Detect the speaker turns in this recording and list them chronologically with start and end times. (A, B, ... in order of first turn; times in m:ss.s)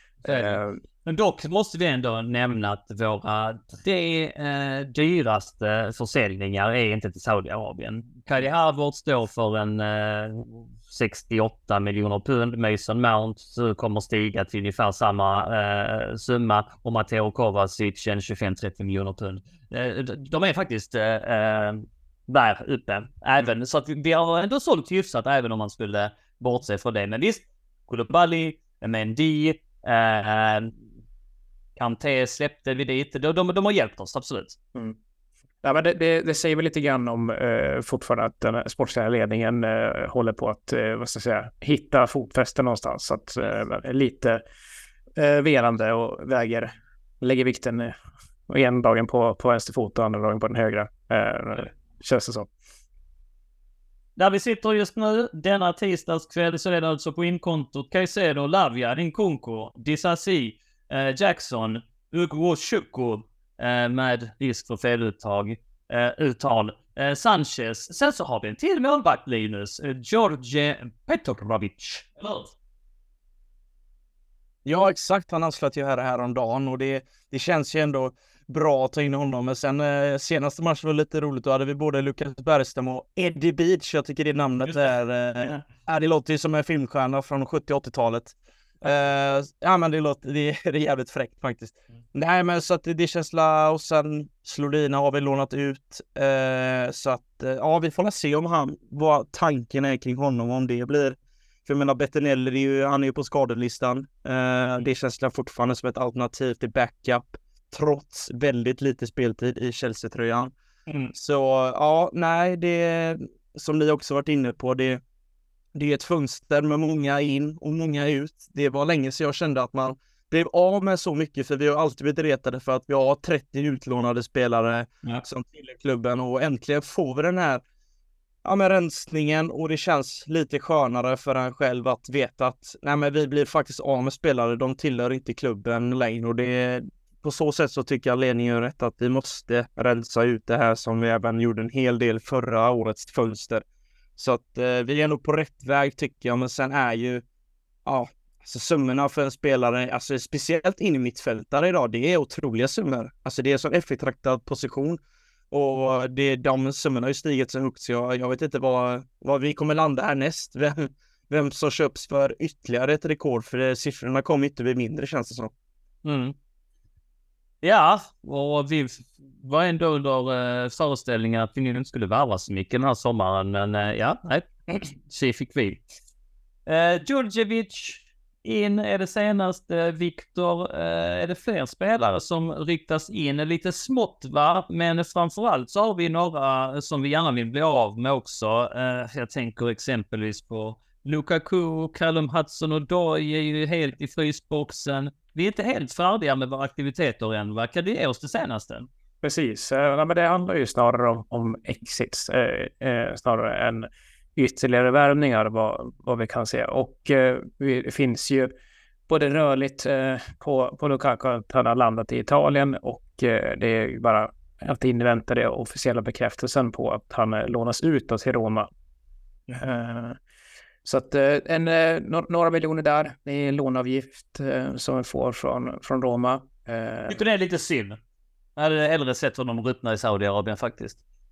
0:00.2-0:30.8 A
0:00.2-0:00.8 B
0:31.8-0:34.6 A
0:35.6-0:44.4 B
0:45.1-0:47.9 B
0:48.5-0:52.5 B
0:54.2-1:12.5 A
1:14.6-1:50.5 C
1:50.9-1:51.1 A
1:51.1-1:55.0 C
1:55.7-2:07.6 C
2:08.4-2:23.6 C
2:24.2-2:27.2 C
2:27.8-2:35.0 C
2:35.5-2:45.5 C
2:46.0-2:46.3 A
2:47.6-2:55.8 A
2:56.7-3:18.9 A
3:19.2-3:28.5 B
3:29.1-3:38.7 B
3:39.5-3:40.2 B
3:40.8-3:47.2 B
3:47.1-3:48.0 A
3:48.6-3:51.0 A